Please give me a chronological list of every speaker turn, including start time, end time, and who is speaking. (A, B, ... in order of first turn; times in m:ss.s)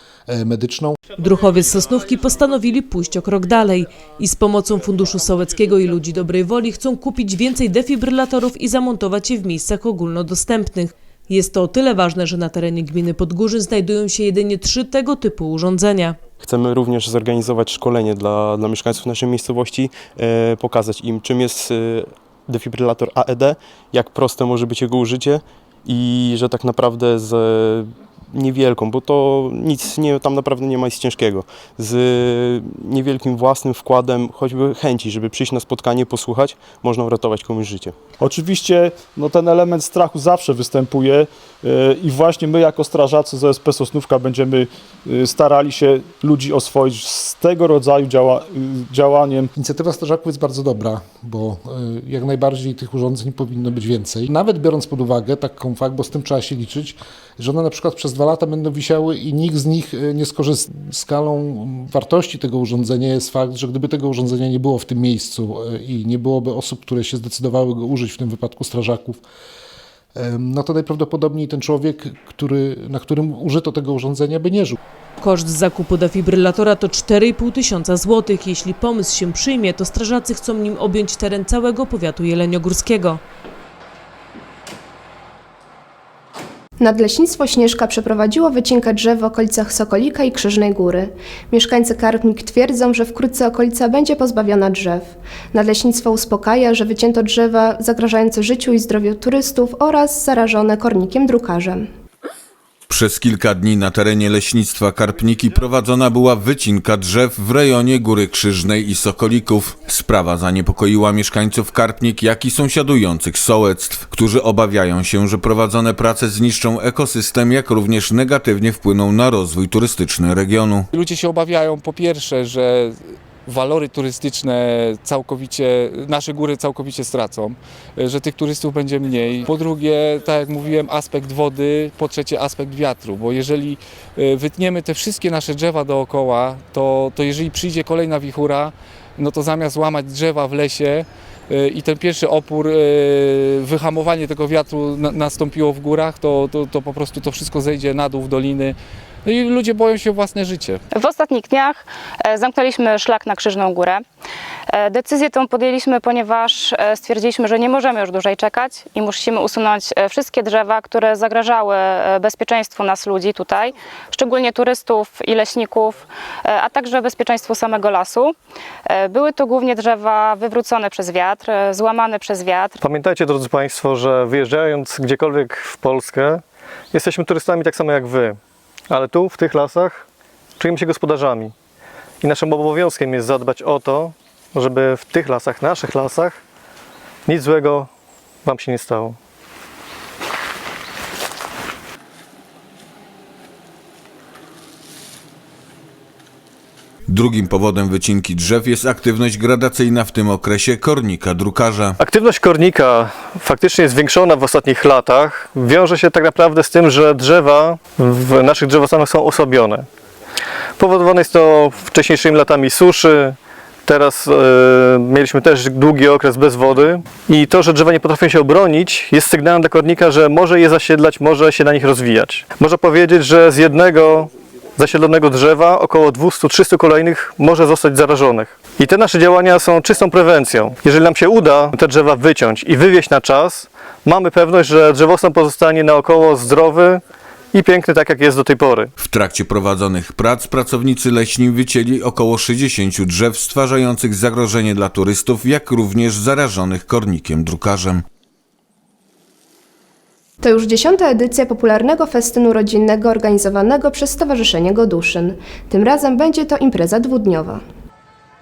0:00.3-0:01.0 A
0:01.2-0:16.2 B
0:16.4-0:38.0 C
0:38.2-0:49.5 D
0:49.5-1:09.2 A
1:10.2-1:14.8 A
1:15.2-1:23.2 B
1:26.8-1:41.9 E
1:42.9-2:00.9 F
2:00.9-2:30.8 G
2:30.9-2:34.0 H
2:34.7-2:48.3 H
2:48.9-2:52.7 H
2:52.8-2:56.4 I
2:56.9-2:58.4 I
2:58.9-3:00.0 I
3:00.6-3:01.5 I
3:02.2-3:06.4 I
3:07.2-3:07.9 I
3:08.4-3:09.2 I
3:17.1-3:22.0 F
3:22.0-3:29.9 I
3:30.8-3:57.0 I
3:57.5-3:58.9 I
3:59.0-4:08.0 F
4:10.4-4:17.6 E